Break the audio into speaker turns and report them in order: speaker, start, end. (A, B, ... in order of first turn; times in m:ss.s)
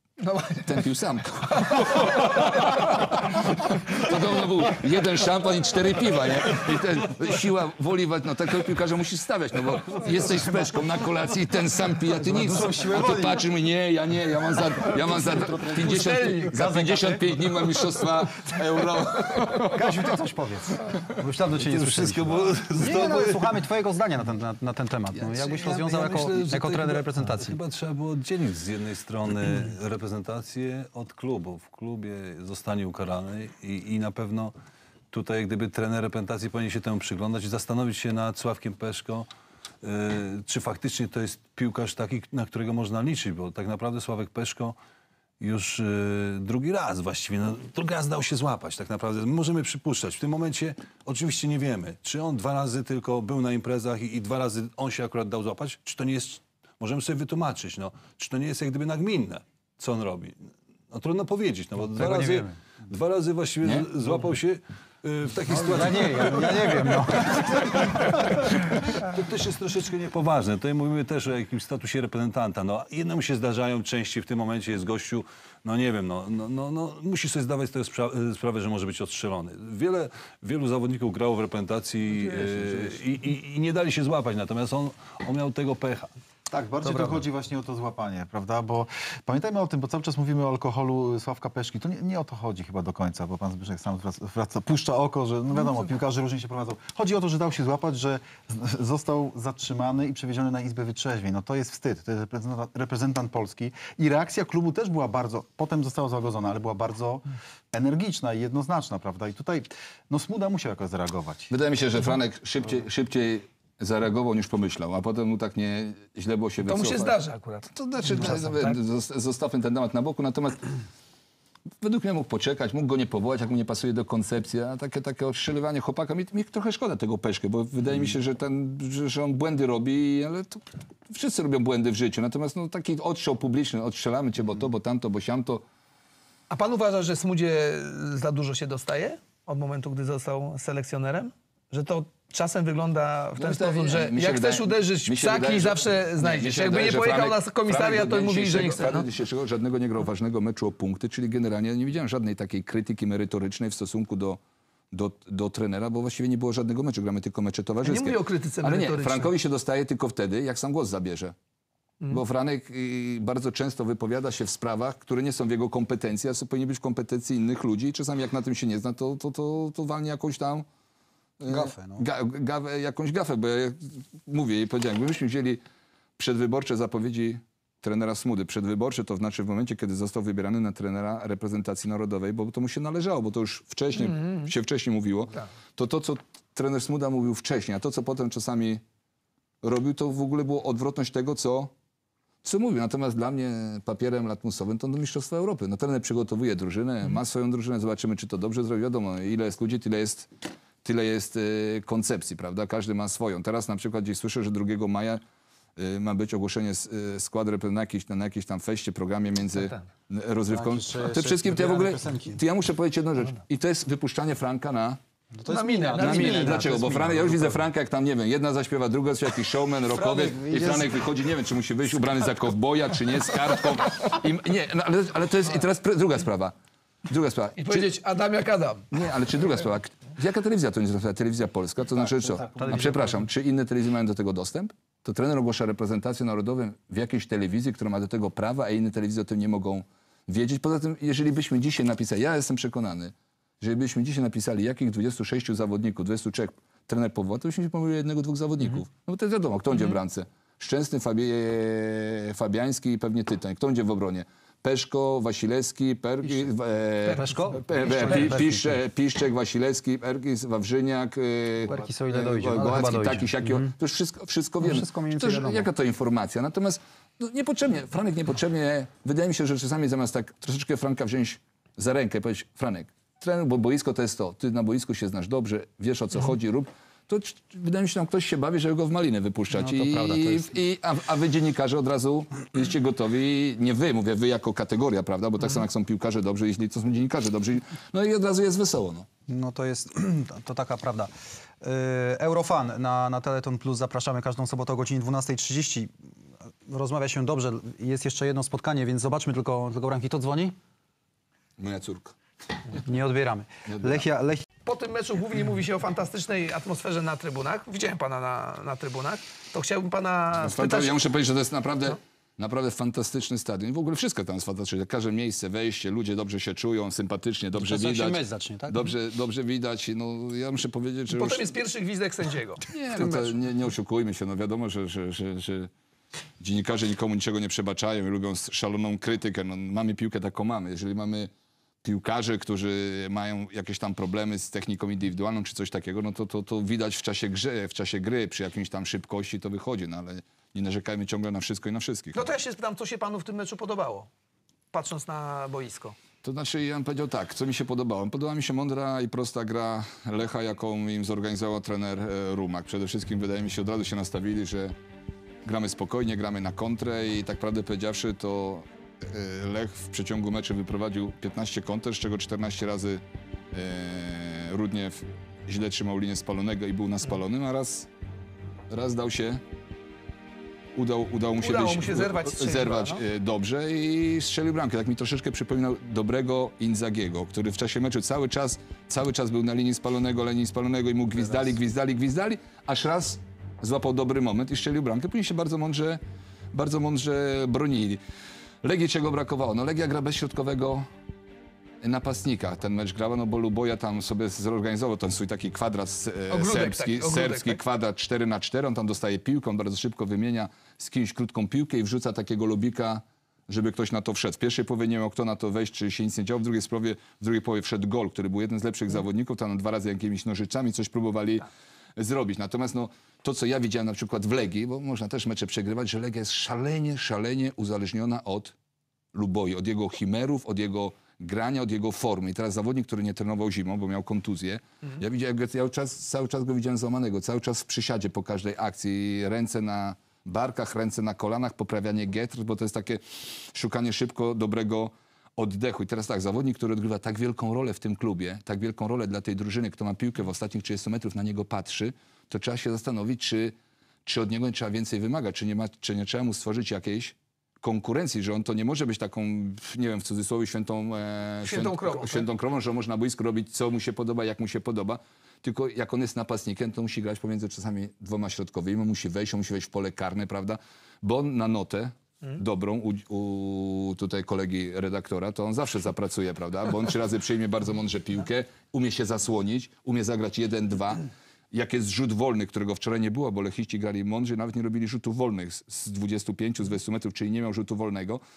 0:00.2-0:00.8 A
0:00.4-0:20.0 B
0:01.6-0:02.4 A
0:12.2-0:13.4 C
0:15.0-0:17.7 C
0:15.7-0:16.5 A
0:19.6-0:27.6 C
0:21.6-0:23.5 D
0:25.2-0:34.5 D
0:35.1-0:39.3 D
0:39.8-0:44.8 D
0:45.4-1:26.1 D
1:01.9-1:02.6 C
1:03.6-1:03.9 B
1:05.5-1:08.2 C
1:26.5-1:51.5 E
1:26.8-1:27.2 C
1:51.5-1:57.2 B
1:56.6-1:58.8 A
1:57.7-2:00.7 B
2:01.8-2:15.6 B
2:16.5-2:29.0 A
2:23.4-2:34.4 B
2:34.9-2:41.3 B
2:37.8-2:39.3 A
2:42.1-2:50.7 B
2:51.4-2:55.6 B
2:51.4-2:52.0 C
2:56.2-3:08.8 B
3:03.9-3:04.5 A
3:09.6-3:11.7 B
3:12.4-3:20.3 B
3:20.8-3:25.2 B
3:25.8-3:35.0 B
3:30.5-3:32.4 C
3:35.4-3:37.6 C
3:35.5-3:36.8 A
3:36.0-3:46.5 B
3:39.9-3:40.9 C
3:47.1-3:47.9 B
3:47.6-3:48.9 A
3:48.9-4:49.1 B
3:52.0-3:53.0 E
3:52.6-3:53.2 C
4:09.7-4:10.0 A
4:17.0-4:18.5 A
4:17.1-4:18.7 C
4:21.6-4:23.7 C
4:24.6-4:25.7 C
4:39.6-4:40.5 C
4:49.3-4:55.9 C
4:56.7-5:00.6 C
5:01.6-5:02.1 B
5:02.8-5:04.4 C
5:03.7-5:04.0 B
5:04.6-5:11.0 A
5:10.4-5:21.5 B
5:17.6-5:18.9 C
5:21.1-5:22.7 A
5:22.7-5:25.7 B
5:26.4-5:31.3 B
5:31.8-5:42.2 B
5:42.1-5:44.1 A
5:44.7-5:46.0 A
5:46.2-5:54.7 B
5:55.4-6:07.9 B
6:08.7-6:09.4 B
6:10.7-6:26.0 B
6:11.4-6:13.0 A
6:26.5-6:28.0 B
6:28.6-6:30.9 B
6:31.8-6:51.4 B
6:36.3-6:37.6 A
6:52.0-6:58.5 B
6:59.1-7:58.2 B
7:31.4-7:32.3 A